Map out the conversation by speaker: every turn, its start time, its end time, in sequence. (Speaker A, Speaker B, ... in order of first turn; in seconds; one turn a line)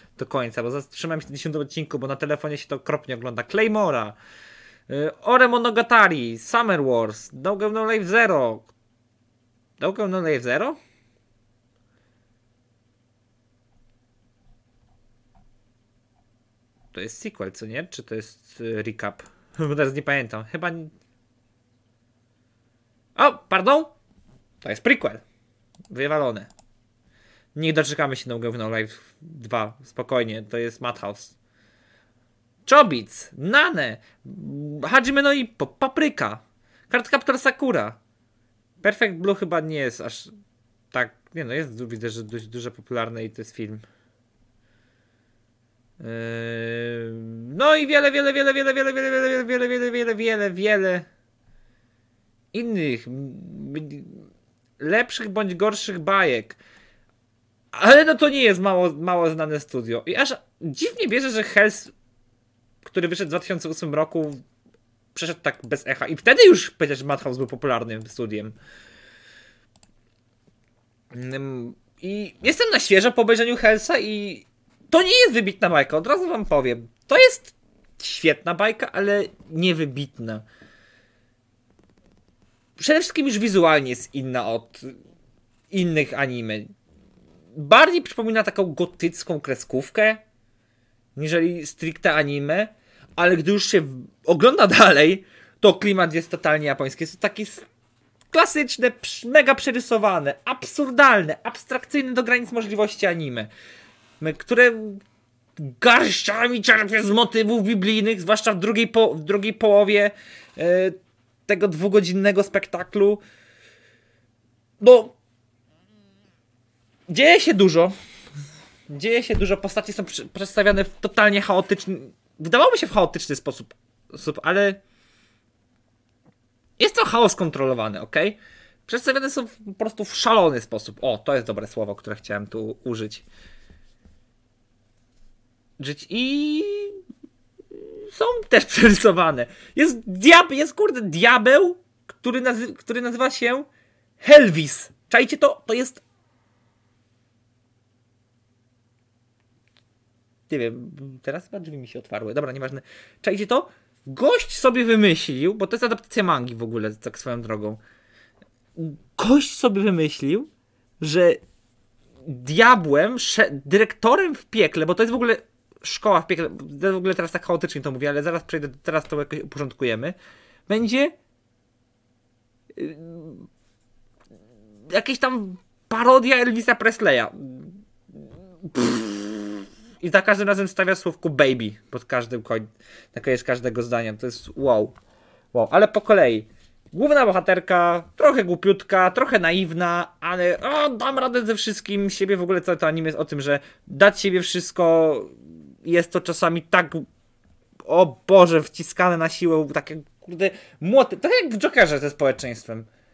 Speaker A: 0.2-4.2
Speaker A: 4.9-8.7
Speaker A: 9.8-10.8
Speaker A: 16.9-20.9
Speaker A: 23.2-23.9
Speaker A: 24.6-25.2
Speaker A: 25.9-26.5
Speaker A: 27.6-31.4
Speaker A: 32.7-38.0
Speaker A: 38.8-40.3
Speaker A: 40.9-43.8
Speaker A: 46.0-51.1
Speaker A: 52.5-54.2
Speaker A: 54.8-56.6
Speaker A: 57.7-61.9
Speaker A: 62.8-64.4
Speaker A: 65.2-68.6
Speaker A: 71.1-80.4
Speaker A: 82.8-85.0
Speaker A: 85.7-86.7
Speaker A: 87.5-90.2
Speaker A: 91.2-97.7
Speaker A: 98.3-103.5
Speaker A: 104.2-105.0
Speaker A: 105.6-111.0
Speaker A: 111.5-113.2
Speaker A: 114.8-115.2
Speaker A: 117.1-117.9
Speaker A: 118.9-124.8
Speaker A: 126.8-133.2
Speaker A: 135.8-136.9
Speaker A: 137.7-143.7
Speaker A: 144.2-146.0
Speaker A: 150.5-157.8
Speaker A: 158.8-161.4
Speaker A: 162.2-170.2
Speaker A: 170.7-171.2
Speaker A: 172.8-173.5
Speaker A: 174.9-177.8
Speaker A: 178.6-185.0
Speaker A: 185.5-197.1
Speaker A: 197.8-202.9